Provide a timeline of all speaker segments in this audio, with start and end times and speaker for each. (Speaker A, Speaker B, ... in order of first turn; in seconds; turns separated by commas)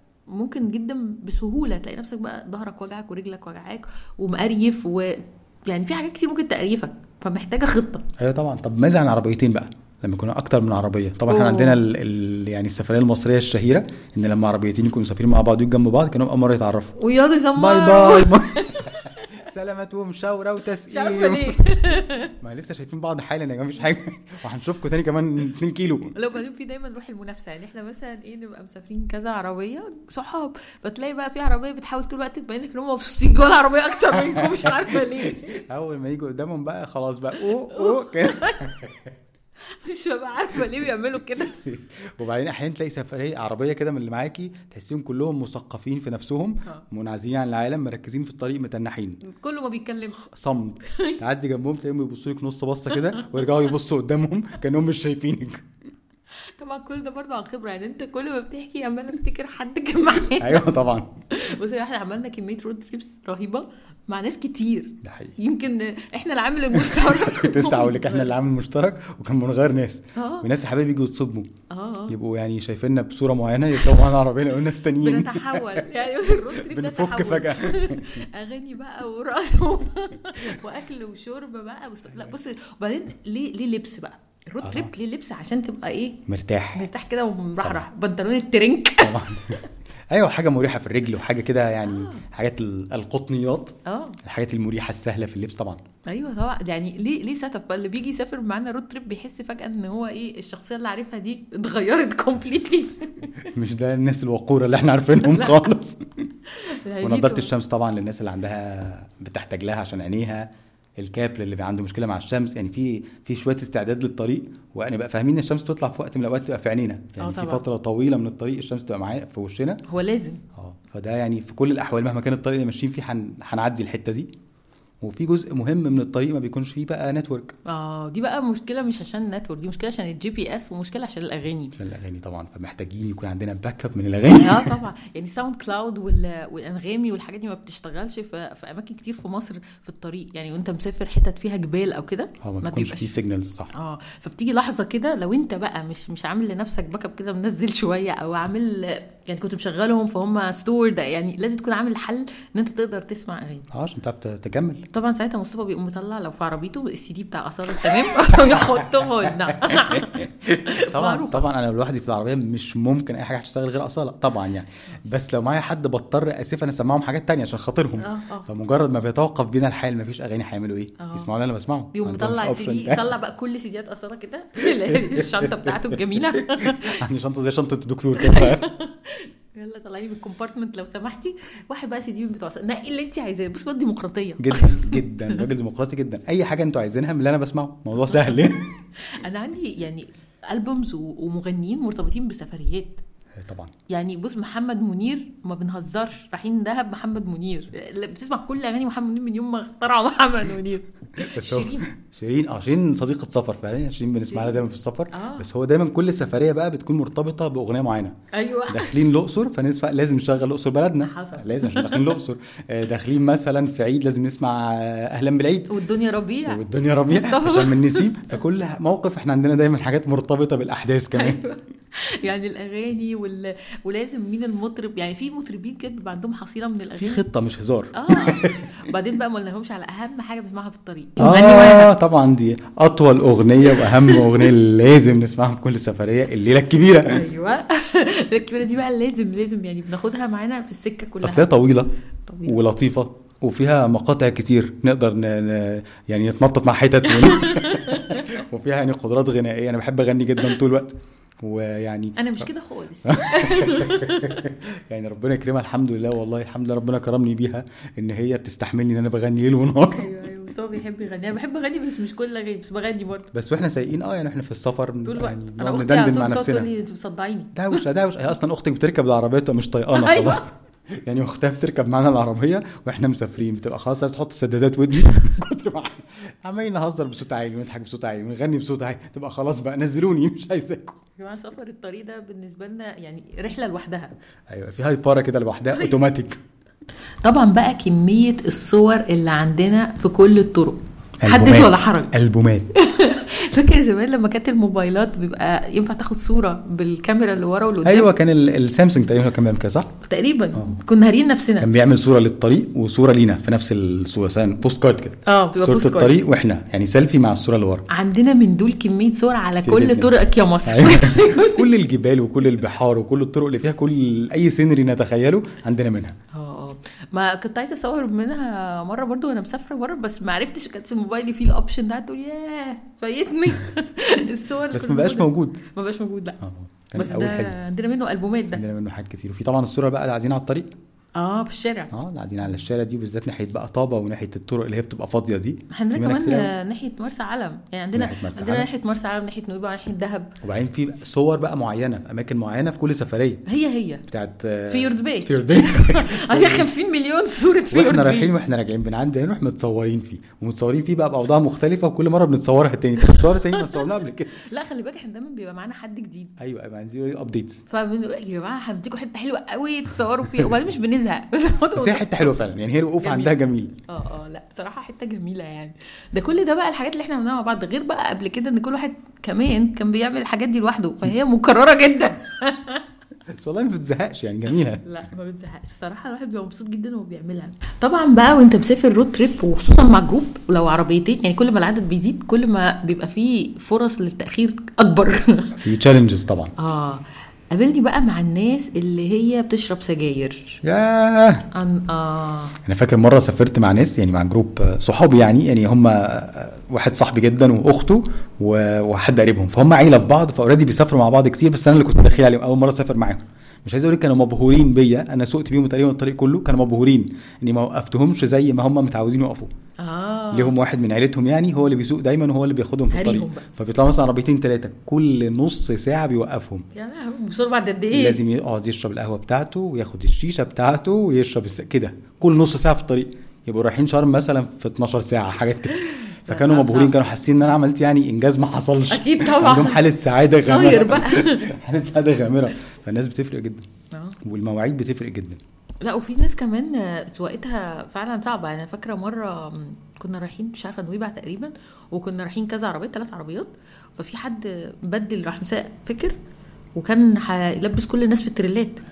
Speaker A: 0.3-8.0, Speaker B: 8.2-17.0, Speaker A: 11.3-11.8, Speaker A: 17.0-19.4, Speaker B: 17.5-21.6, Speaker A: 20.9-22.3, Speaker B: 22.3-26.1, Speaker A: 26.1-35.6, Speaker B: 34.1-39.1, Speaker A: 37.6-38.8, Speaker A: 39.7-41.6, Speaker B: 41.6-49.2, Speaker A: 49.2-50.3, Speaker B: 50.3-55.6, Speaker A: 50.8-51.2, Speaker A: 53.0-53.4, Speaker A: 56.5-60.6, Speaker B: 60.4-61.1, Speaker A: 61.3-68.3, Speaker B: 65.0-65.4, Speaker B: 66.7-71.5, Speaker A: 70.2-70.5, Speaker A: 71.7-72.2, Speaker B: 72.1-78.2, Speaker A: 75.0-86.2, Speaker B: 84.6-84.9, Speaker B: 86.3-86.8, Speaker A: 86.7-89.6, Speaker B: 89.0-89.6, Speaker B: 90.1-95.8, Speaker A: 91.8-92.2, Speaker A: 93.8-94.2, Speaker A: 96.1-103.5, Speaker B: 103.5-106.3, Speaker A: 105.2-105.6, Speaker A: 106.5-107.5, Speaker B: 107.0-119.8, Speaker A: 117.2-117.6, Speaker A: 119.9-120.4, Speaker B: 120.5-124.3, Speaker B: 125.0-127.5, Speaker A: 127.7-131.8, Speaker B: 131.7-134.8, Speaker A: 134.3-143.1, Speaker B: 142.4-143.7, Speaker A: 143.7-153.7, Speaker B: 153.7-154.8, Speaker A: 154.9-161.4, Speaker B: 157.8-173.0, Speaker A: 168.0-168.5, Speaker A: 171.0-171.3, Speaker A: 171.9-177.0, Speaker B: 174.7-178.6, Speaker A: 178.2-185.4, Speaker B: 184.4-188.7, Speaker A: 189.0-193.0, Speaker B: 193.4-193.7, Speaker A: 193.9-201.8, Speaker B: 201.3-208.2, Speaker A: 204.2-205.5, Speaker A: 208.3-209.0, Speaker B: 208.7-215.7, Speaker A: 211.0-212.2, Speaker A: 215.7-218.1, Speaker B: 216.5-221.4, Speaker A: 221.1-227.2, Speaker B: 227.0-228.6, Speaker A: 227.9-231.9, Speaker B: 231.2-237.2, Speaker A: 233.7-234.5, Speaker A: 237.1-241.5, Speaker B: 241.2-241.9, Speaker A: 242.2-242.6, Speaker B: 242.4-252.4, Speaker A: 247.1-248.2, Speaker A: 252.2-254.5, Speaker B: 253.0-260.1, Speaker A: 259.9-263.3, Speaker B: 263.3-266.7, Speaker A: 265.0-267.8, Speaker B: 267.5-281.0, Speaker A: 269.9-270.4, Speaker A: 281.2-284.1, Speaker B: 284.5-286.4, Speaker A: 287.2-292.1, Speaker B: 291.2-292.7, Speaker A: 292.7-298.1, Speaker B: 297.8-299.9, Speaker A: 300.1-301.7, Speaker B: 301.6-307.8, Speaker A: 305.2-306.2, Speaker A: 307.9-311.6, Speaker B: 309.6-310.1, Speaker B: 310.6-316.1, Speaker A: 316.3-326.4, Speaker B: 324.7-325.6, Speaker B: 326.4-327.6, Speaker A: 326.9-328.6, Speaker B: 328.5-330.7, Speaker A: 331.1-331.9, Speaker B: 331.9-336.5, Speaker A: 335.7-340.3, Speaker B: 337.9-338.7, Speaker B: 340.4-343.4, Speaker A: 343.5-344.0, Speaker B: 344.1-346.7, Speaker A: 344.7-348.3, Speaker B: 347.7-354.4, Speaker A: 353.0-356.3, Speaker B: 356.4-357.6, Speaker A: 357.7-362.4, Speaker B: 361.7-363.7, Speaker A: 363.0-363.3, Speaker A: 363.9-372.8, Speaker B: 373.3-374.8, Speaker A: 374.8-385.6, Speaker B: 385.6-386.5, Speaker A: 386.6-390.6, Speaker B: 390.6-391.5, Speaker A: 391.5-392.5, Speaker B: 392.6-409.5, Speaker A: 409.8-410.5, Speaker B: 410.3-416.6, Speaker A: 412.9-413.4, Speaker A: 416.7-418.2, Speaker B: 417.9-433.7, Speaker A: 425.8-426.9, Speaker A: 428.9-429.8, Speaker A: 430.4-431.5, Speaker A: 433.9-434.2, Speaker B: 434.2-435.4, Speaker A: 435.8-446.2, Speaker A: 446.8-448.8